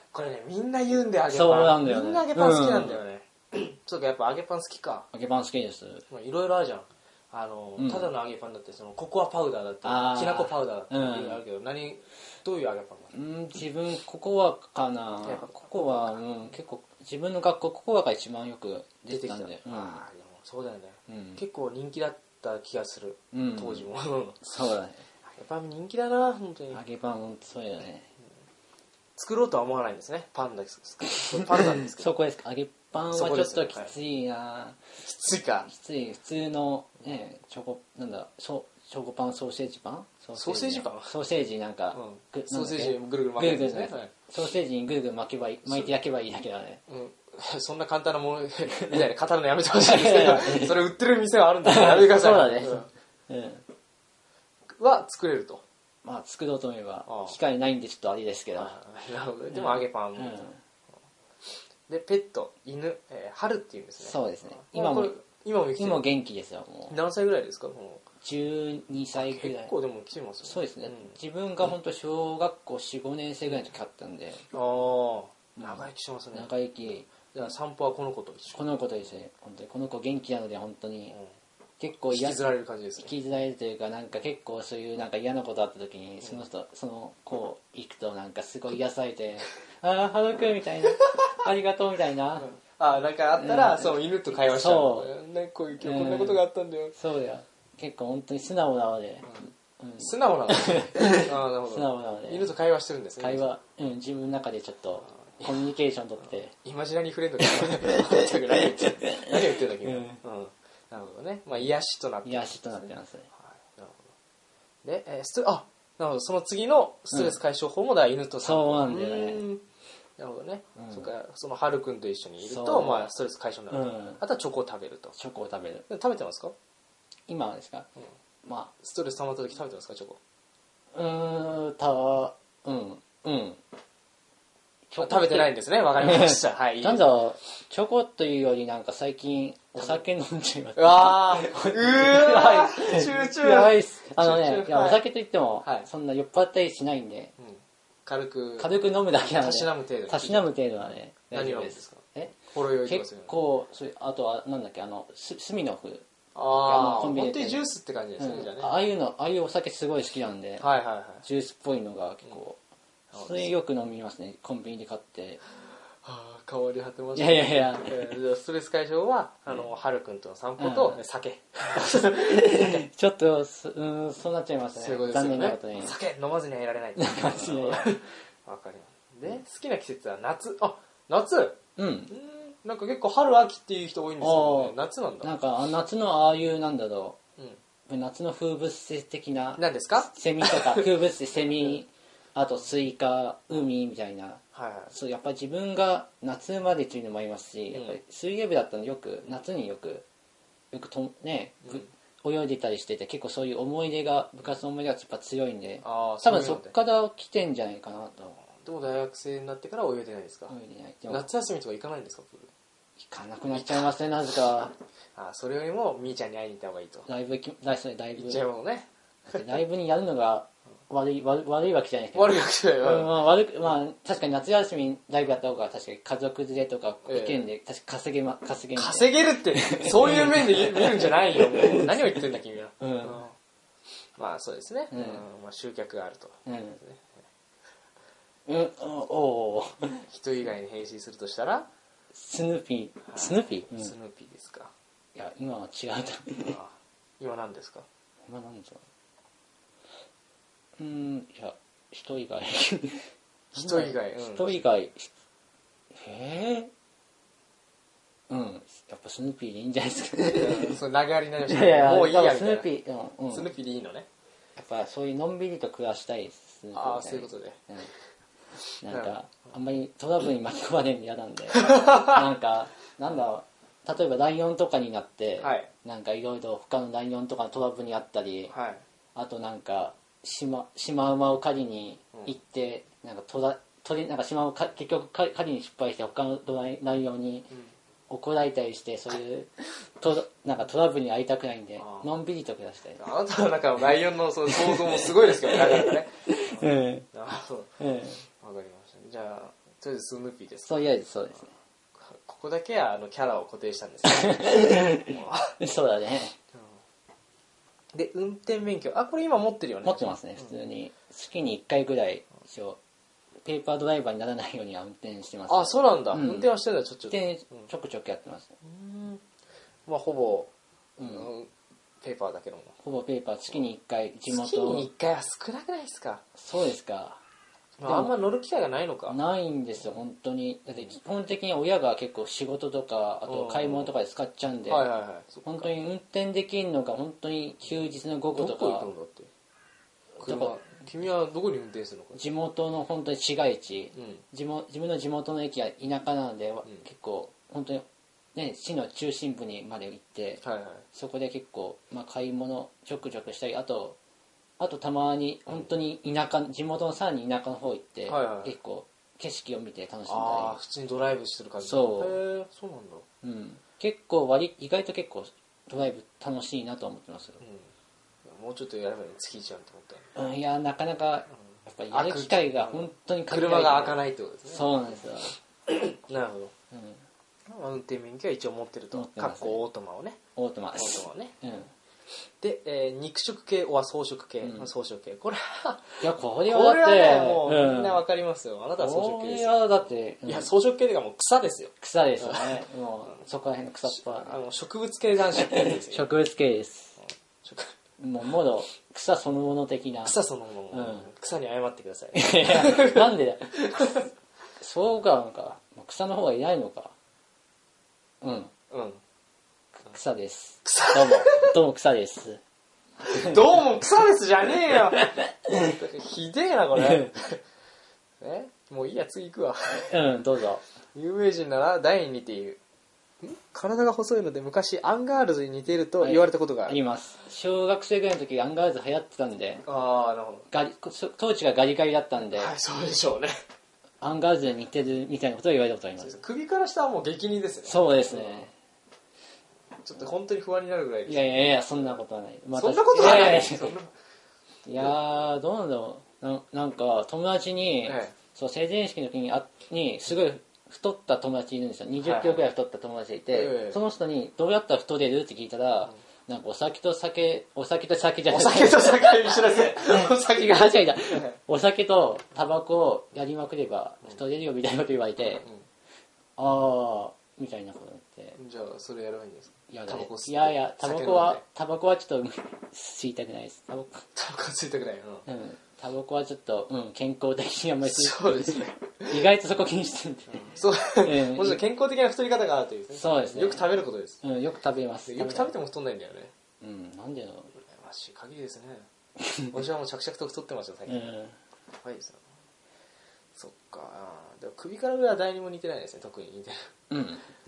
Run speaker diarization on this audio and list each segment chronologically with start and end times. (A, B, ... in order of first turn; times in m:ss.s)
0:00.1-0:05.1 A
0:01.3-0:03.0 B
0:05.1-0:06.0 B
0:06.1-0:13.2 A
0:07.8-0:08.1 B
0:09.8-0:11.4 B
0:13.1-0:20.0 B
0:15.2-0:16.2 A
0:19.1-0:24.4 A
0:21.1-0:21.4 B
0:23.3-0:23.9 B
0:24.4-0:25.0 B
0:25.3-0:26.8 A
0:26.7-0:28.0 B
0:29.2-0:32.1 A
0:32.0-0:34.8 B
0:33.1-0:33.9 A
0:35.0-0:35.7 A
0:35.7-0:46.8 B
0:40.4-0:41.2 A
0:41.9-0:44.1 A
0:45.7-0:45.9 A
0:46.9-0:52.9 A
0:49.8-0:50.8 B
0:51.6-0:53.6 B
0:54.8-0:55.6 A
0:56.0-0:58.8 B
0:57.1-0:57.4 A
0:58.6-1:00.5 A
0:59.5-1:00.6 B
1:01.9-1:06.0 A
1:04.0-1:05.2 B
1:05.8-1:07.0 B
1:06.9-1:08.0 A
1:08.2-1:09.7 B
1:09.1-1:11.2 A
1:10.4-1:14.5 B
1:14.5-1:16.5 A
1:15.6-1:17.1 B
1:17.2-1:18.7 A
1:18.5-1:21.2 B
1:21.8-1:22.4 B
1:22.1-1:23.2 A
1:23.0-1:32.5 B
1:32.4-1:37.0 A
1:33.4-1:35.1 B
1:35.8-1:36.4 B
1:36.9-1:42.5 B
1:39.3-1:43.5 A
1:43.2-1:46.5 B
1:46.5-1:54.1 A
1:49.9-1:50.2 B
1:52.2-1:53.3 B
1:54.8-1:59.6 A
1:57.1-1:57.4 B
1:58.4-1:59.4 B
2:00.2-2:05.2 A
2:00.8-2:01.1 B
2:02.4-2:03.1 B
2:03.7-2:04.2 B
2:05.2-2:05.9 B
2:05.9-2:06.5 A
2:07.3-2:07.9 B
2:08.4-2:08.7 B
2:08.8-2:10.2 A
2:10.9-2:13.6 B
2:14.9-2:27.3 B
2:15.0-2:17.1 A
2:20.8-2:25.0 A
2:27.4-2:33.4 A
2:28.6-2:37.6 B
2:36.4-2:38.7 A
2:38.2-2:40.7 B
2:40.6-2:41.3 A
2:41.2-2:42.6 B
2:43.1-2:43.6 A
2:43.1-2:45.4 B
2:46.0-2:52.8 A
2:47.2-2:48.1 B
2:50.6-2:51.0 B
2:51.8-2:56.0 B
2:54.8-3:01.6 A
2:57.0-2:58.0 B
3:01.8-3:02.1 B
3:02.1-3:05.3 A
3:04.2-3:07.2 B
3:07.9-3:20.0 B
3:09.6-3:11.0 A
3:14.6-3:14.9 A
3:17.7-3:18.0 A
3:20.7-3:28.4 B
3:25.8-3:26.8 A
3:28.6-3:30.6 A
3:30.5-3:31.3 B
3:31.1-3:32.5 A
3:33.0-3:34.7 B
3:33.5-3:33.9 A
3:35.2-3:37.1 A
3:37.1-3:38.4 B
3:38.2-3:39.4 A
3:39.3-3:52.1 B
3:42.1-3:43.2 A
3:47.1-3:47.5 A
3:48.8-3:53.4 A
3:52.8-3:53.2 B
3:54.2-3:57.2 A
3:54.9-3:55.2 B
3:56.5-3:56.8 B
3:58.5-4:00.0 B
4:00.1-4:01.7 A
4:02.2-4:03.9 B
4:03.1-4:04.7 A
4:05.2-4:06.6 B
4:06.4-4:07.9 A
4:08.3-4:08.8 B
4:10.8-4:15.1 B
4:13.5-4:14.6 A
4:16.0-4:16.7 B
4:18.3-4:20.8 B
4:20.3-4:22.7 A
4:21.5-4:23.5 B
4:23.3-4:24.1 A
4:24.6-4:27.9 B
4:26.7-4:27.6 A
4:28.8-4:38.5 B
4:28.9-4:29.1 A
4:31.6-4:32.0 A
4:35.4-4:35.7 A
4:38.5-4:38.8 A
4:39.2-4:47.5 B
4:48.1-4:53.0 B
4:51.8-4:52.1 A
4:53.0-4:57.7 A
4:54.5-4:57.1 B
4:57.8-4:58.2 B
4:58.3-5:00.8 A
5:00.7-5:01.5 B
5:02.0-5:05.6 A
5:04.0-5:06.4 B
5:07.9-5:10.5 A
5:09.8-5:12.8 B
5:13.4-5:16.5 B
5:15.5-5:17.7 A
5:17.1-5:18.5 B
5:18.6-5:19.2 A
5:19.9-5:21.5 A
5:21.0-5:21.3 B
5:22.0-5:22.8 A
5:22.8-5:24.9 B
5:24.3-5:26.2 A
5:26.4-5:27.2 B
5:27.8-5:29.2 A
5:27.8-5:28.1 B
5:29.1-5:34.9 B
5:30.7-5:31.0 A
5:33.3-5:34.0 A
5:34.6-5:35.7 A
5:35.4-5:38.9 B
5:38.3-5:39.3 A
5:40.2-5:40.6 B
5:40.2-5:42.2 A
5:42.1-5:50.4 B
5:44.0-5:44.2 A
5:50.4-5:50.8 A
5:50.9-5:54.0 B
5:54.6-6:00.6 B
5:58.1-5:58.6 A
6:00.1-6:03.0 A
6:01.6-6:02.2 B
6:03.2-6:07.4 B
6:07.4-6:07.7 A
6:08.2-6:10.1 A
6:10.2-6:15.4 B
6:11.9-6:14.8 A
6:15.7-6:16.5 A
6:16.7-6:17.0 B
6:17.5-6:20.2 A
6:18.9-6:19.6 B
6:20.4-6:21.7 B
6:20.7-6:21.4 A
6:22.4-6:29.6 A
6:24.4-6:24.7 B
6:26.0-6:28.0 B
6:28.8-6:30.5 B
6:30.3-6:32.6 A
6:31.8-6:34.4 B
6:33.9-6:36.1 A
6:35.4-6:37.0 B
6:37.0-6:37.7 A
6:38.0-6:40.2 B
6:40.0-6:43.1 A
6:40.7-6:41.1 B
6:42.1-6:44.0 B
6:43.6-6:43.9 A
6:44.6-6:46.9 B
6:48.2-6:48.5 B
6:48.7-6:49.0 A
6:49.9-6:52.4 B
6:50.6-6:51.5 A
6:53.0-6:57.4 A
6:58.2-7:00.0 A
6:59.9-7:00.6 B
7:00.9-7:02.6 A
7:03.2-7:06.8 A
7:06.0-7:09.6 B
7:09.7-7:10.5 A
7:10.5-7:12.5 B
7:12.3-7:13.4 A
7:14.0-7:16.2 B
7:16.0-7:18.5 A
7:17.6-7:18.5 B
7:19.8-7:21.5 A
7:21.1-7:23.8 B
7:22.5-7:23.9 A
7:24.7-7:39.1 B
7:27.8-7:28.1 A
7:32.0-7:32.4 A
7:33.3-7:33.8 A
7:38.3-7:40.5 A
7:39.8-7:45.5 B
7:46.4-7:48.4 B
7:48.4-7:51.4 A
7:49.7-7:54.0 B
7:54.2-7:55.3 A
7:55.3-8:01.6 B
7:57.8-7:59.2 A
8:00.3-8:04.2 A
8:02.9-8:05.5 B
8:05.1-8:06.3 A
8:06.6-8:07.5 B
8:07.6-8:08.9 A
8:09.5-8:11.1 A
8:10.9-8:11.4 B
8:11.8-8:12.2 A
8:13.4-8:16.7 A
8:16.9-8:17.2 B